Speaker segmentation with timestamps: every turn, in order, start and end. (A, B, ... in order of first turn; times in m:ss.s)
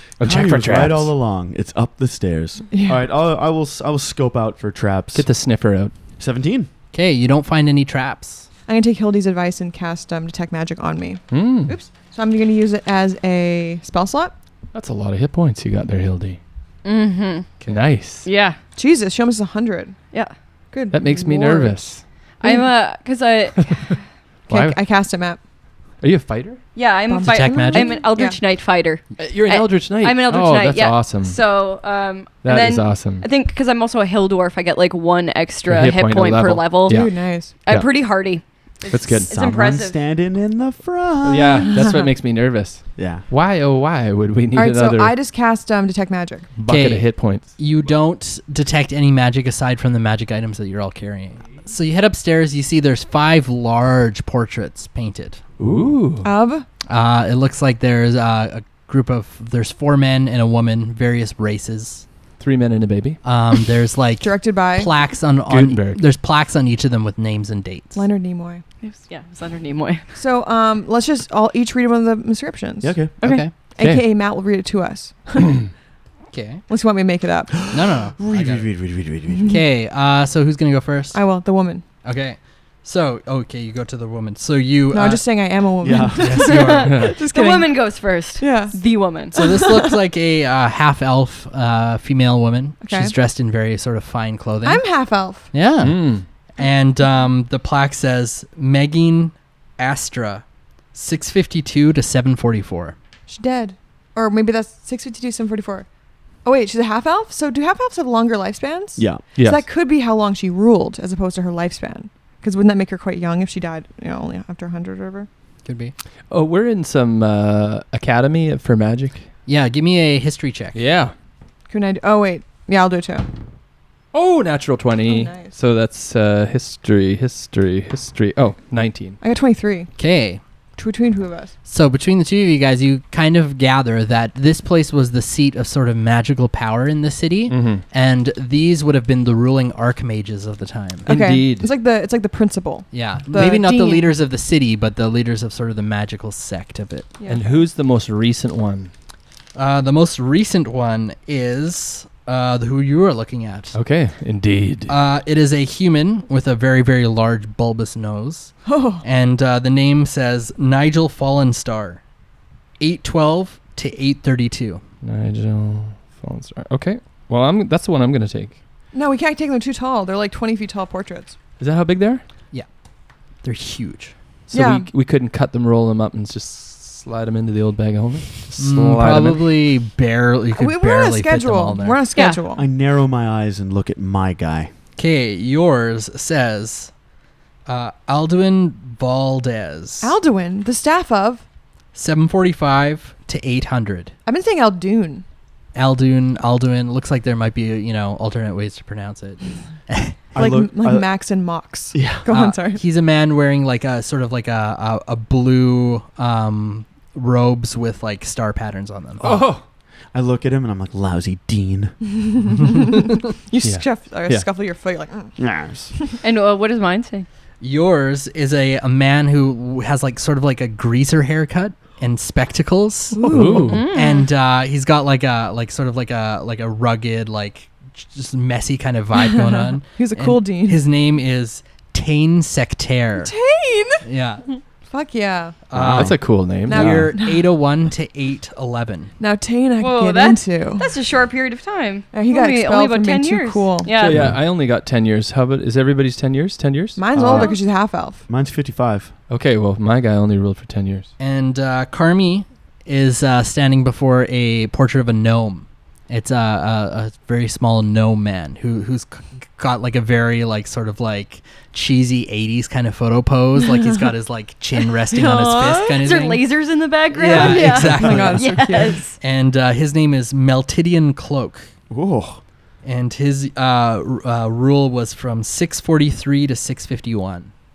0:00.2-0:01.1 A
0:00.2-0:05.3 B
0:02.7-0:03.0 C
0:05.1-0:05.9 A
0:06.2-0:06.7 B
0:06.9-0:08.5 D
0:08.7-0:14.3 C
0:11.3-0:11.8 A
0:14.7-0:16.4 A
0:16.8-0:17.6 E
0:17.6-0:18.2 A
0:18.2-0:18.6 E
0:18.8-0:20.0 C
0:20.7-0:21.9 C
0:20.9-0:22.0 A
0:22.4-0:23.9 E
0:22.4-0:22.7 C
0:24.5-0:24.8 A
0:24.5-0:25.4 C
0:26.0-0:26.6 A
0:26.7-0:40.0 E
0:27.1-0:28.4 C
0:27.2-0:28.0 D
0:29.2-0:31.4 A
0:32.4-0:33.3 A
0:35.6-0:38.1 A
0:36.9-0:37.6 C
0:38.9-0:39.3 A
0:39.3-0:41.7 B
0:41.2-0:45.2 A
0:43.0-0:43.2 B
0:44.5-0:46.5 C
0:46.5-0:47.6 A
0:46.6-0:55.4 D
0:55.6-0:56.3 A
0:56.2-0:56.6 C
0:56.9-1:02.0 D
1:02.4-1:03.2 A
1:03.2-1:08.0 D
1:04.2-1:04.9 C
1:05.4-1:06.0 A
1:07.9-1:08.6 C
1:08.8-1:10.0 E
1:10.1-1:15.6 C
1:12.8-1:13.4 B
1:13.2-1:13.7 D
1:13.8-1:14.1 A
1:16.3-1:16.6 D
1:16.7-1:17.6 C
1:17.6-1:19.5 B
1:17.7-1:18.7 D
1:19.5-1:21.2 D
1:21.1-1:21.8 C
1:22.0-1:27.0 D
1:24.9-1:27.9 C
1:25.8-1:26.5 B
1:26.3-1:29.3 E
1:26.8-1:27.2 A
1:28.4-1:28.8 C
1:29.3-1:34.8 D
1:29.3-1:30.0 C
1:32.8-1:33.1 C
1:34.6-1:35.5 C
1:35.5-1:42.9 D
1:35.7-1:36.3 A
1:43.3-1:45.9 C
1:46.4-1:55.3 C
1:49.0-1:49.2 B
1:49.3-1:49.6 A
1:55.6-1:55.9 D
1:56.3-1:59.3 A
1:59.4-2:00.8 D
2:00.7-2:01.1 A
2:01.7-2:03.2 C
2:04.1-2:09.2 A
2:05.0-2:05.5 C
2:09.2-2:09.9 C
2:10.0-2:10.4 D
2:10.8-2:11.5 C
2:11.6-2:21.1 D
2:17.5-2:17.9 A
2:21.0-2:21.7 A
2:21.0-2:24.1 C
2:22.9-2:27.2 D
2:27.2-2:27.6 C
2:27.2-2:28.9 A
2:29.5-2:33.7 D
2:33.7-2:34.9 A
2:34.9-2:42.0 D
2:38.6-2:39.0 C
2:42.8-2:44.8 D
2:45.0-2:48.6 A
2:48.9-2:51.4 C
2:51.6-2:52.2 A
2:53.4-2:54.2 D
2:54.5-2:59.6 A
2:54.5-2:54.9 C
2:58.6-3:02.1 D
3:00.6-3:02.6 C
3:02.1-3:02.4 E
3:02.5-3:04.7 B
3:05.0-3:06.9 D
3:07.7-3:10.1 D
3:10.0-3:11.4 C
3:11.9-3:14.1 D
3:14.2-3:15.2 C
3:15.7-3:20.2 D
3:20.3-3:21.1 B
3:20.3-3:22.8 C
3:21.9-3:22.2 B
3:22.3-3:29.5 D
3:29.2-3:29.6 A
3:30.1-3:32.0 B
3:32.2-3:35.4 C
3:33.6-3:34.4 A
3:35.4-3:35.9 B
3:36.2-3:37.3 E
3:37.6-3:53.3 D
3:43.1-3:43.8 C
3:43.2-3:43.9 A
3:43.7-3:44.3 E
3:49.3-3:50.8 C
3:53.2-3:54.0 C
3:54.0-3:54.4 D
3:54.9-3:55.6 C
3:55.7-3:59.1 D
3:55.7-3:57.1 A
3:55.7-3:56.3 B
3:56.6-3:57.5 C
3:59.2-4:00.9 C
3:59.8-4:04.2 E
4:02.1-4:03.9 C
4:03.9-4:07.2 A
4:04.1-4:04.4 B
4:07.0-4:08.2 C
4:07.1-4:07.5 B
4:07.3-4:07.6 E
4:08.3-4:09.1 B
4:09.3-4:11.1 A
4:11.2-4:26.5 D
4:25.1-4:25.9 C
4:25.5-4:29.2 E
4:27.1-4:31.7 D
4:27.3-4:29.1 C
4:31.9-4:32.4 B
4:32.8-4:37.5 D